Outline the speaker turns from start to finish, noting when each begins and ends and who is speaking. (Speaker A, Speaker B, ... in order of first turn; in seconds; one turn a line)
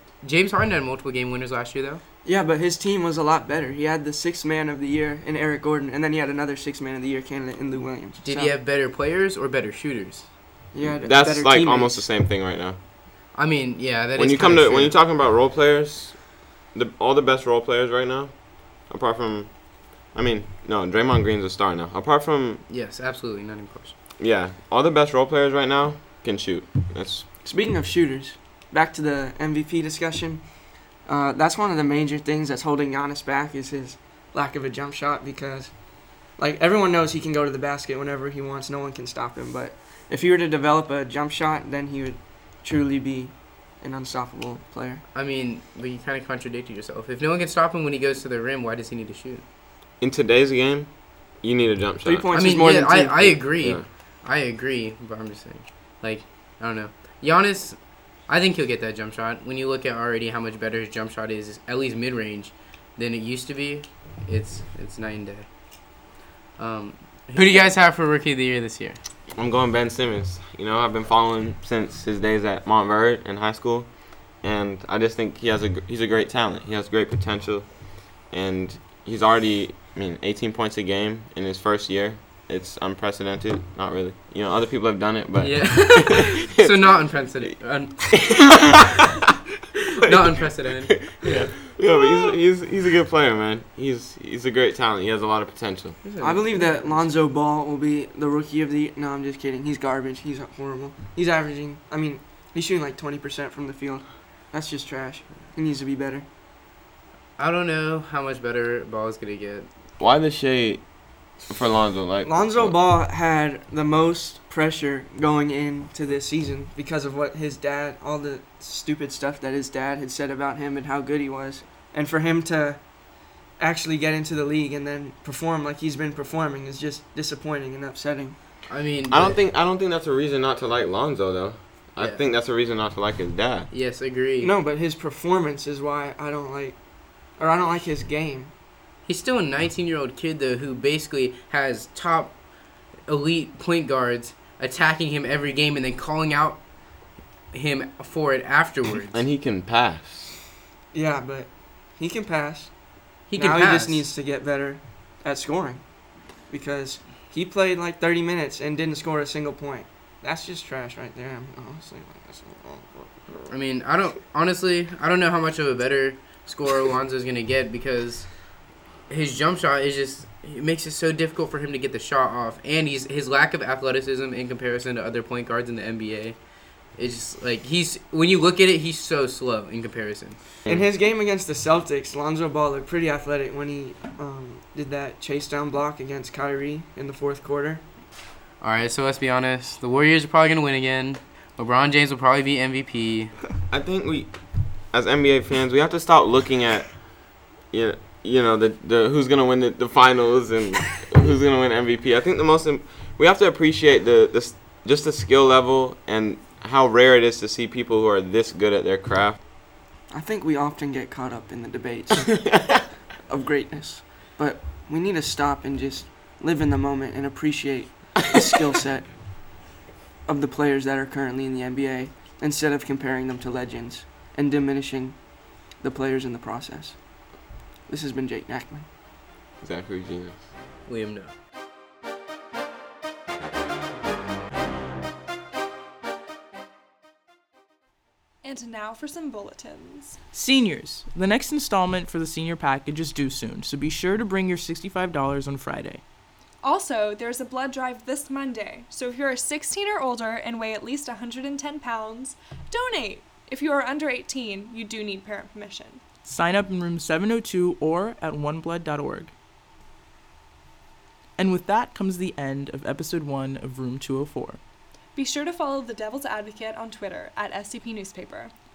Speaker A: 0.2-2.0
Speaker B: 2.2-8.6
Speaker A: 8.2-10.3
Speaker B: 10.7-12.1
Speaker C: 11.0-12.8
Speaker A: 13.3-15.0
Speaker C: 14.2-22.6
Speaker A: 22.6-23.9
Speaker C: 24.2-27.3
Speaker B: 27.4-45.0
Speaker A: 45.1-49.4
Speaker C: 50.0-52.3
Speaker B: 52.0-53.5
Speaker A: 52.3-69.0
Speaker C: 53.5-53.9
Speaker C: 69.3-86.4
Speaker A: 85.4-88.4
Speaker A: 90.0-91.5
Speaker C: 91.2-96.0
Speaker A: 96.0-97.2
Speaker B: 96.1-106.3
Speaker A: 107.4-109.7
Speaker C: 110.0-112.8
Speaker B: 112.2-128.4
Speaker A: 128.7-129.4
Speaker C: 129.0-133.7
Speaker A: 132.0-132.3
Speaker A: 133.7-134.5
Speaker B: 134.4-138.5
Speaker A: 139.0-149.2
Speaker C: 149.1-150.3
Speaker B: 150.9-163.5
Speaker A: 153.3-154.1
Speaker A: 163.5-180.6
Speaker B: 180.7-187.9
Speaker A: 188.6-193.4
Speaker C: 193.7-209.4
Speaker B: 210.1-212.3
Speaker C: 212.3-212.8
Speaker B: 213.2-219.6
Speaker B: 220.2-228.9
Speaker C: 229.6-230.4
Speaker A: 230.8-231.3
Speaker D: 238.4-240.2
Speaker E: 240.3-246.0
Speaker D: 246.6-256.0
Speaker E: 256.2-259.3
Speaker E: 261.4-264.6
Speaker D: 265.1-268.5